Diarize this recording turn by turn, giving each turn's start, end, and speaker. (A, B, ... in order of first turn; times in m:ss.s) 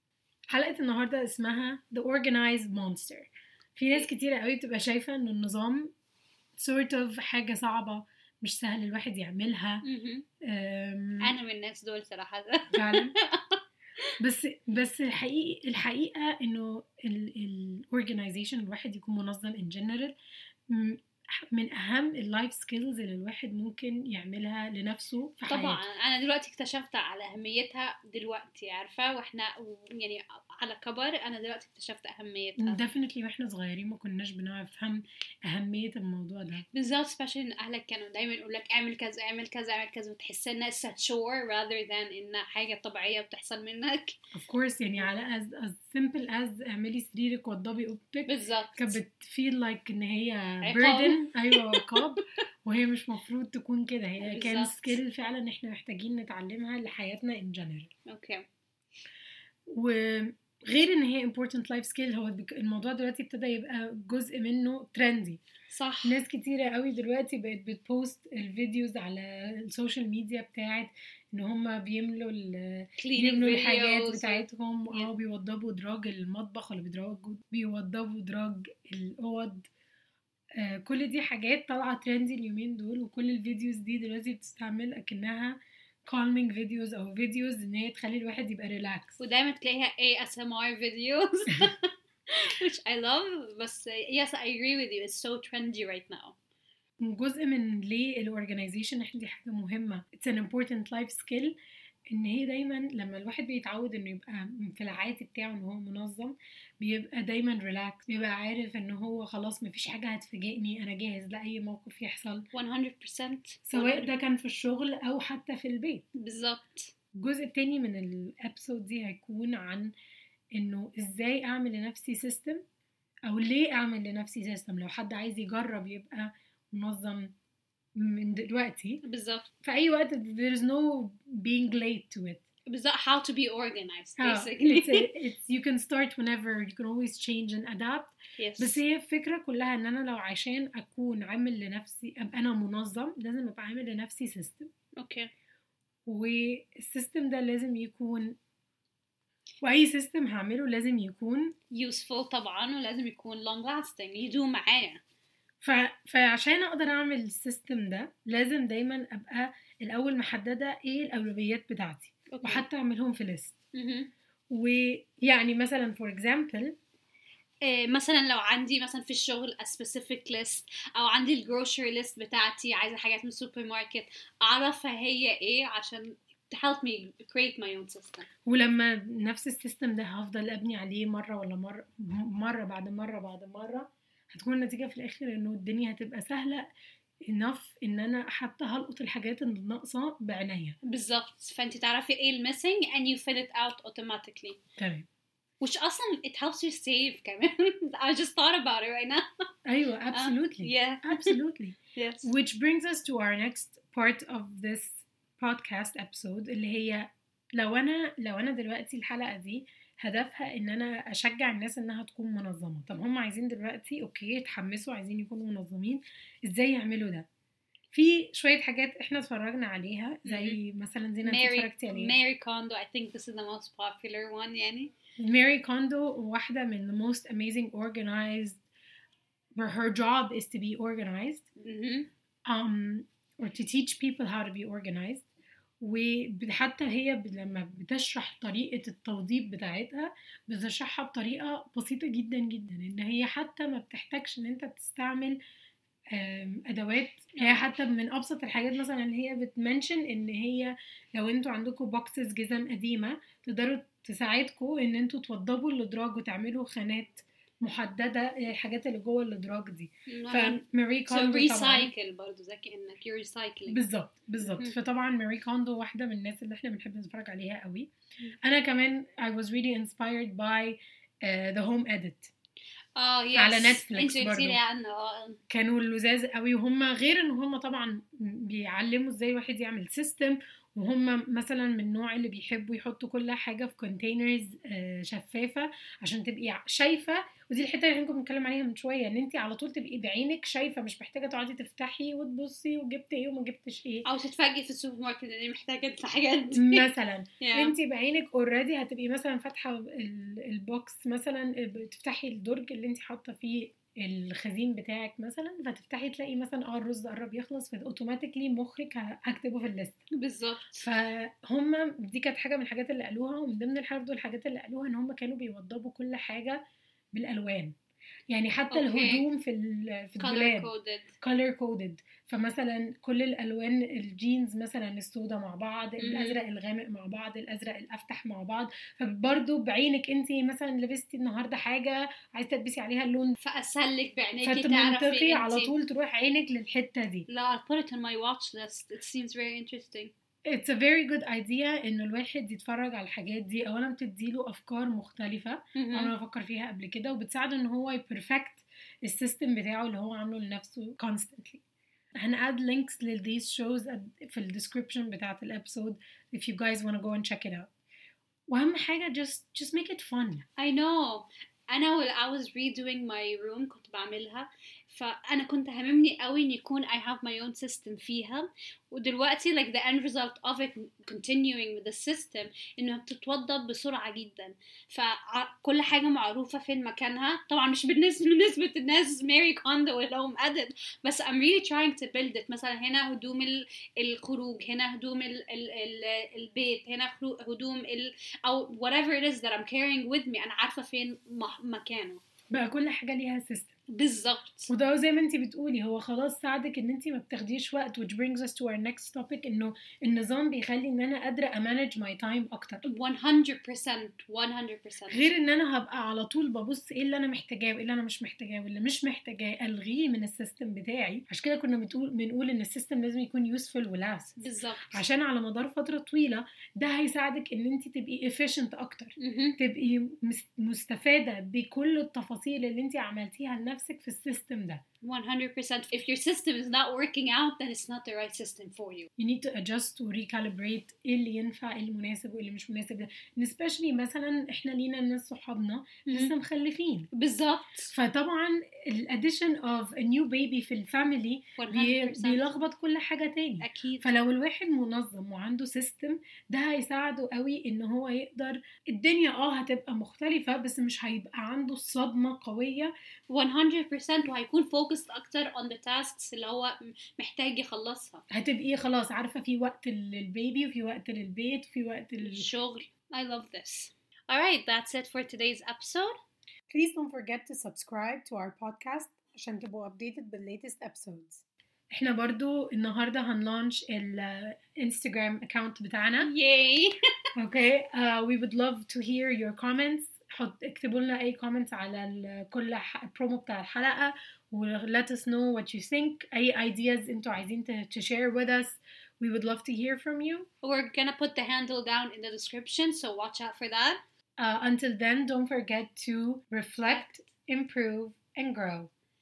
0:00.5-0:05.9 A
0:06.6-0:09.8 A
0:09.8-0:10.2 B
0:10.4-0:11.3 A
0:11.2-0:13.6 B
0:12.7-0:13.1 A
0:14.2-0:20.1 A
0:20.7-0:25.8 A
0:25.5-0:32.8 B
0:32.6-0:36.6 A
0:36.7-0:44.2 B
0:44.3-0:57.9 A
0:48.2-0:49.0 B
0:50.6-0:52.2 B
0:54.2-0:55.0 B
0:58.0-0:58.4 B
0:59.7-1:05.4 A
1:05.7-1:06.2 B
1:06.0-1:19.7 A
1:13.0-1:15.1 B
1:20.6-1:29.2 A
1:29.2-1:36.4 B
1:37.0-1:41.5 A
1:42.1-1:52.5 A
1:52.5-1:54.1 B
1:53.7-1:56.0 A
1:56.1-1:56.9 B
1:57.2-1:59.9 A
2:00.6-2:02.6 A
2:03.3-2:07.3 A
2:08.0-2:09.0 A
2:09.0-2:09.5 B
2:09.6-2:12.4 A
2:12.7-2:15.1 B
2:14.2-2:24.7 A
2:18.4-2:18.8 B
2:25.0-2:25.3 B
2:26.0-2:28.4 A
2:29.6-2:31.5 A
2:31.7-2:35.0 B
2:35.6-2:43.5 A
2:42.3-2:42.6 B
2:43.7-2:44.1 B
2:44.5-2:46.7 A
2:47.6-2:58.3 B
2:58.4-3:06.7 A
3:07.2-3:10.8 A
3:10.8-3:14.6 B
3:14.8-3:15.1 A
3:15.6-3:19.2 B
3:19.6-3:37.2 A
3:20.1-3:21.4 B
3:21.9-3:22.3 B
3:37.9-3:42.1 A
3:40.2-3:40.6 B
3:41.2-3:44.9 B
3:45.2-3:48.6 A
3:49.6-3:51.5 A
3:51.6-3:52.1 B
3:52.4-3:55.2 A
3:55.8-4:05.4 A
4:06.1-4:21.9 A
4:07.4-4:07.6 B
4:20.1-4:23.8 B
4:23.7-4:27.9 A
4:24.4-4:24.8 B
4:28.4-4:32.3 A
4:33.0-4:35.4 B
4:33.3-4:34.6 A
4:35.5-4:54.0 A
4:54.0-4:56.9 B
4:56.5-5:10.0 A
4:57.4-4:57.8 B
5:10.2-5:10.8 B
5:10.8-5:16.6 A
5:17.1-5:17.7 A
5:18.3-5:20.7 A
5:18.7-5:19.2 B
5:20.2-5:21.1 B
5:21.2-5:33.4 A
5:26.0-5:26.4 B
5:33.4-5:35.7 B
5:34.4-5:37.3 A
5:37.3-5:40.1 B
5:40.5-5:51.6 A
5:45.8-5:46.1 B
5:52.2-5:57.7 A
5:58.5-6:00.4 A
6:00.6-6:32.2 B
6:32.5-6:33.7 A
6:33.9-6:34.7 B
6:34.7-6:42.8 A
6:42.8-6:45.2 B
6:45.1-7:04.8 A
6:54.4-6:55.0 B
6:59.2-6:59.6 B
7:05.0-7:09.1 B
7:09.2-7:17.1 A
7:16.1-7:16.3 B
7:17.1-7:17.9 B
7:17.9-7:32.9 A
7:21.6-7:22.5 B
7:23.6-7:24.1 B
7:33.3-7:38.2 B
7:38.3-7:42.4 A
7:42.2-7:46.1 B
7:46.7-7:56.3 A
7:56.2-7:57.0 B
7:57.4-8:10.5 A
8:10.6-8:14.0 B
8:14.4-8:18.9 A